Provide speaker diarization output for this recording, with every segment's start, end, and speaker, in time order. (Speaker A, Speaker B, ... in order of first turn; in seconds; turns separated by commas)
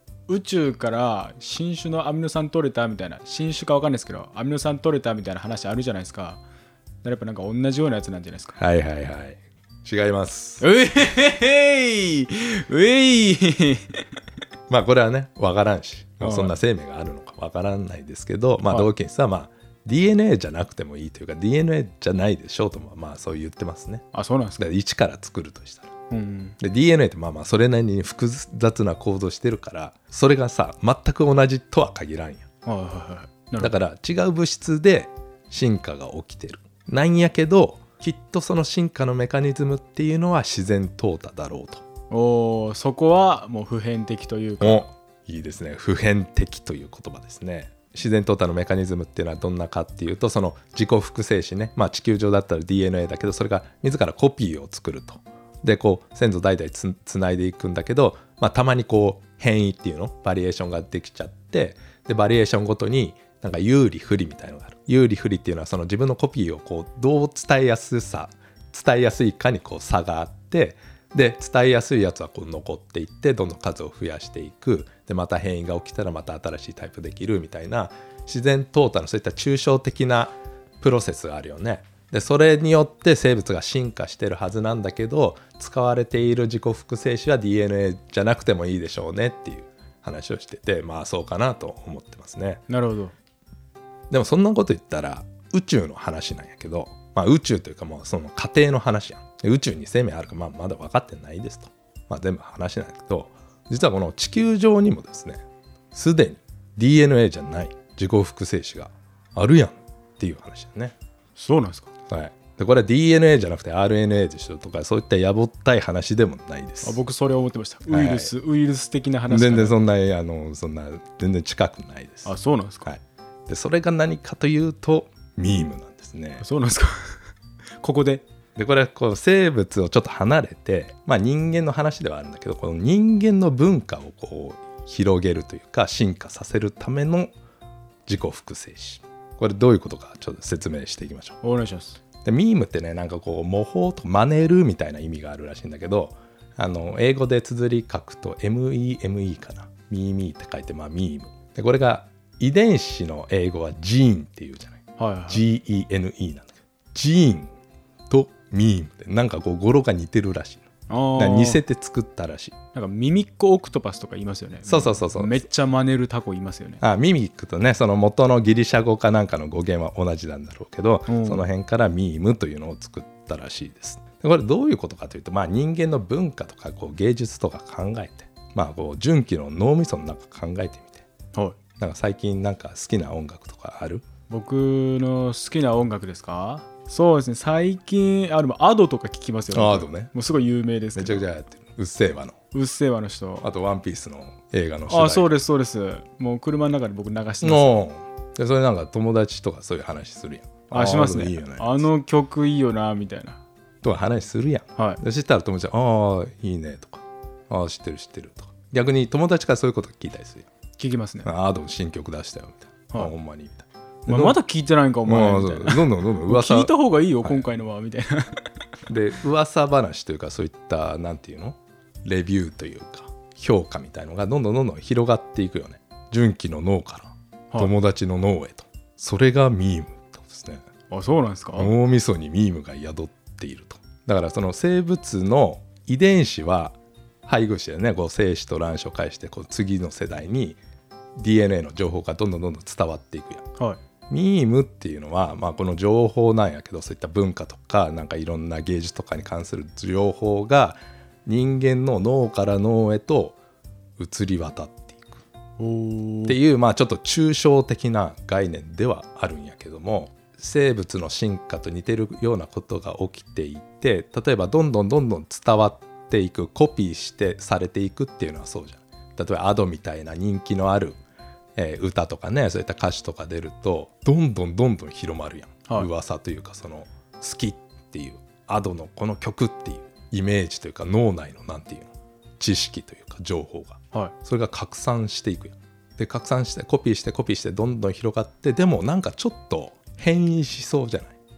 Speaker A: 0.3-6.4, Speaker A: 7.0-8.6, Speaker B: 8.6-10.6, Speaker A: 10.6-14.0, Speaker B: 14.7-24.1, Speaker A: 16.2-16.5, Speaker A: 24.1-24.6, Speaker B: 24.6-25.9, Speaker A: 26.1-26.6, Speaker B: 26.6-32.5, Speaker A: 32.6-33.8, Speaker B: 33.6-41.8, Speaker A: 42.1-44.9, Speaker B: 44.6-92.6, Speaker A: 92.7-93.1, Speaker B: 94.1-111.0, Speaker A: 111.4-111.9, Speaker B: 112.1-117.0, Speaker A: 116.8-119.8, Speaker B: 117.9-118.3, Speaker B: 119.3-122.3, Speaker A: 122.2-122.9, Speaker B: 122.8-126.5, Speaker A: 126.4-127.2, Speaker A: 127.8-128.2, Speaker B: 128.6-137.3, Speaker B: 138.1-141.4, Speaker A: 141.4-142.0, Speaker B: 142.2-157.5, Speaker A: 155.0-155.4, Speaker B: 158.1-160.7, Speaker A: 160.9-161.6, Speaker B: 161.2-162.6, Speaker A: 162.7-166.8, Speaker B: 164.7-165.4, Speaker B: 166.8-181.1, Speaker A: 171.1-171.4, Speaker B: 181.8-184.1, Speaker A: 184.3-191.2, Speaker B: 189.5-190.1, Speaker B: 191.0-192.4, Speaker A: 192.5-193.5, Speaker B: 193.4-195.3, Speaker A: 194.9-197.8, Speaker B: 197.4-201.9, Speaker A: 200.7-203.4, Speaker B: 203.8-210.5, Speaker A: 210.8-211.3, Speaker B: 211.2-214.4, Speaker A: 214.1-218.4, Speaker B: 215.1-216.7, Speaker B: 218.9-230.7, Speaker A: 230.9-231.7, Speaker B: 231.6-240.6, Speaker B: 241.2-243.5, Speaker B: 244.1-253.4, Speaker B: 254.0-255.2, Speaker A: 255.6-256.4, Speaker B: 256.3-271.0, Speaker B: 271.6-291.2